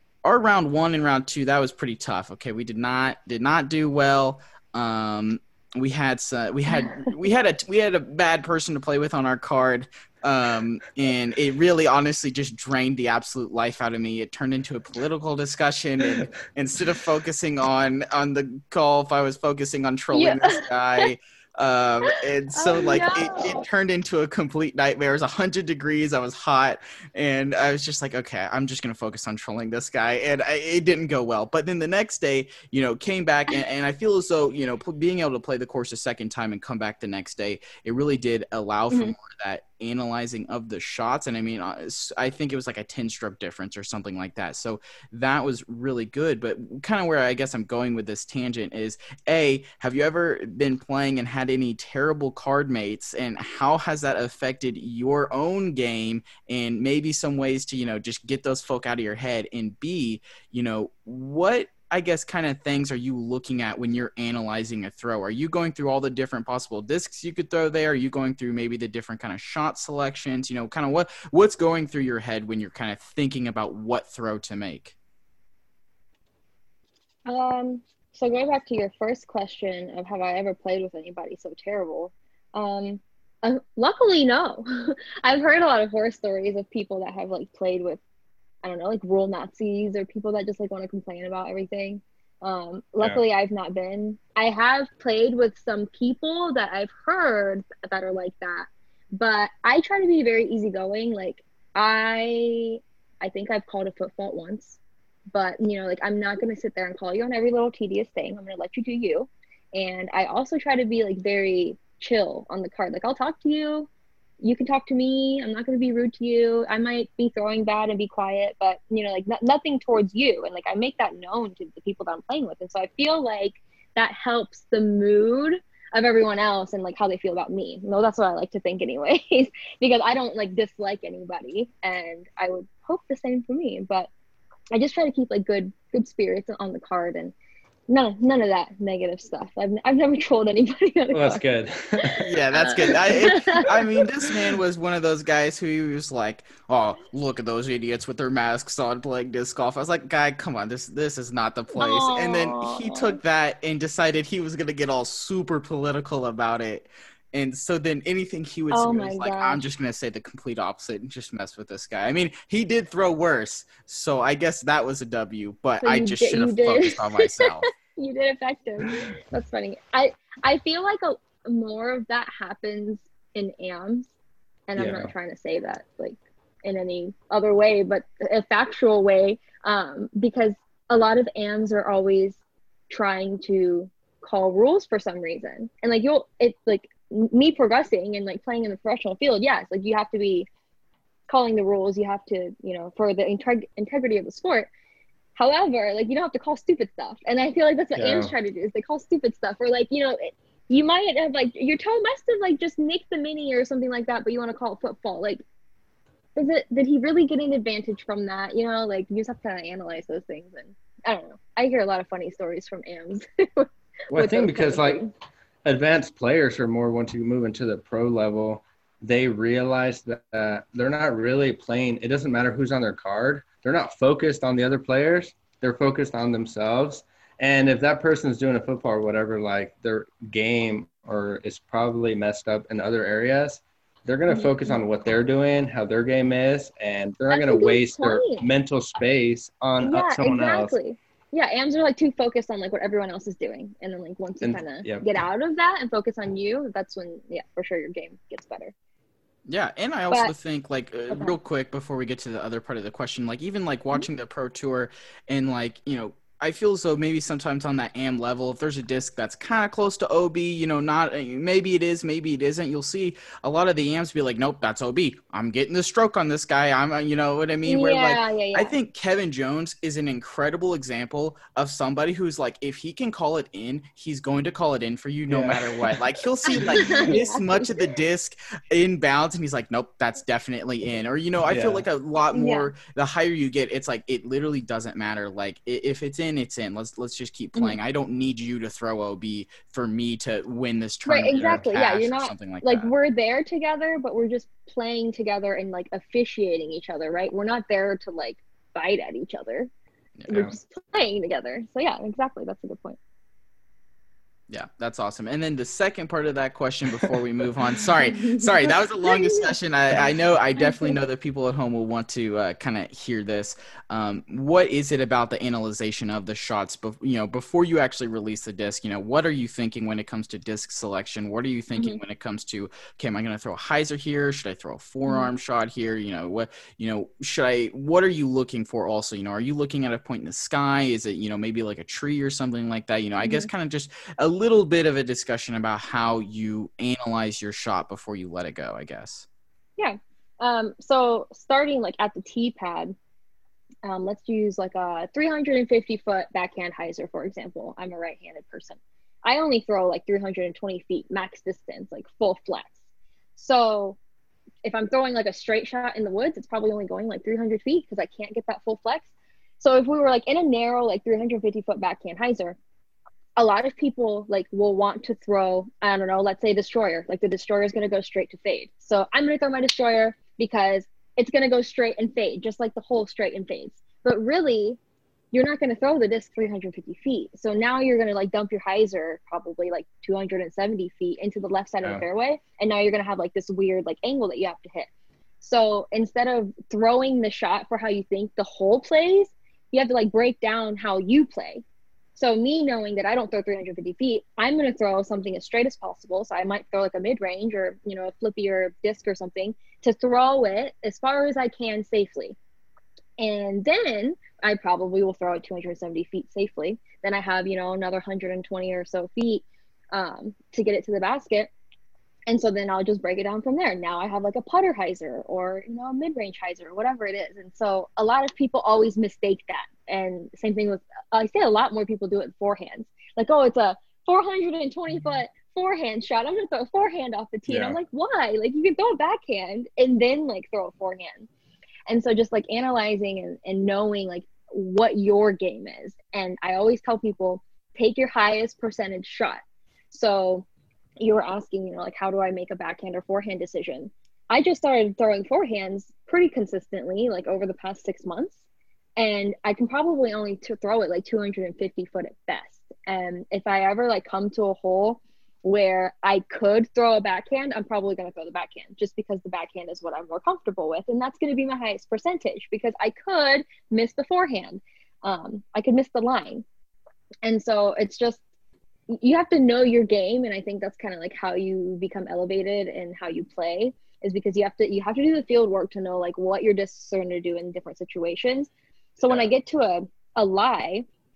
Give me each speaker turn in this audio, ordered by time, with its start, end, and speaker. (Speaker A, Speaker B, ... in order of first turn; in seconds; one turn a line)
Speaker A: 0.2-74.9
Speaker B: 20.1-21.1
Speaker B: 22.1-23.6
Speaker B: 77.3-88.0
Speaker B: 88.6-104.8
Speaker B: 105.3-113.9
Speaker B: 114.4-134.1
Speaker B: 134.7-137.3
Speaker B: 137.9-141.4
Speaker C: 141.1-142.2
Speaker A: 142.2-167.7
Speaker B: 142.5-144.1
Speaker B: 151.8-153.2
Speaker B: 158.7-159.6
Speaker B: 165.8-174.1
Speaker B: 174.7-190.5
Speaker C: 174.8-175.1
Speaker B: 191.3-194.7
Speaker B: 195.3-205.4
Speaker C: 197.9-198.3
Speaker B: 206.3-215.1
Speaker C: 214.1-215.1
Speaker C: 215.6-240.7
Speaker B: 234.3-234.8
Speaker B: 237.3-238.5
Speaker B: 239.8-248.7
Speaker C: 244.4-245.1
Speaker A: 249.5-292.9
Speaker B: 251.1-251.3
Speaker B: 267.6-268.8
Speaker C: 275.3-275.9
Speaker B: 276.5-277.7
Speaker C: 281.5-281.8
Speaker B: 282.3-282.7
Speaker B: 291.0-299.7
Speaker C: 291.3-291.6
Speaker A: 300.2-300.5
Speaker B: 300.3-303.0
Speaker A: 304.5-339.2
Speaker B: 308.2-309.5
Speaker B: 310.6-310.9
Speaker B: 321.7-322.0
Speaker B: 333.2-333.5
Speaker B: 339.8-342.9
Speaker B: 343.8-352.7
Speaker B: 353.4-354.0
Speaker B: 354.6-359.1
Speaker B: 359.6-362.6
Speaker B: 363.4-374.8
Speaker B: 375.3-384.9
Speaker B: 385.4-391.6
Speaker B: 392.1-402.4
Speaker B: 403.2-411.5
Speaker B: 412.3-431.3
Speaker C: 427.5-427.8
Speaker B: 431.9-439.4
Speaker B: 439.9-440.4
Speaker B: 441.0-448.4
Speaker B: 449.0-466.4
Speaker B: 467.2-468.2
Speaker B: 468.9-480.8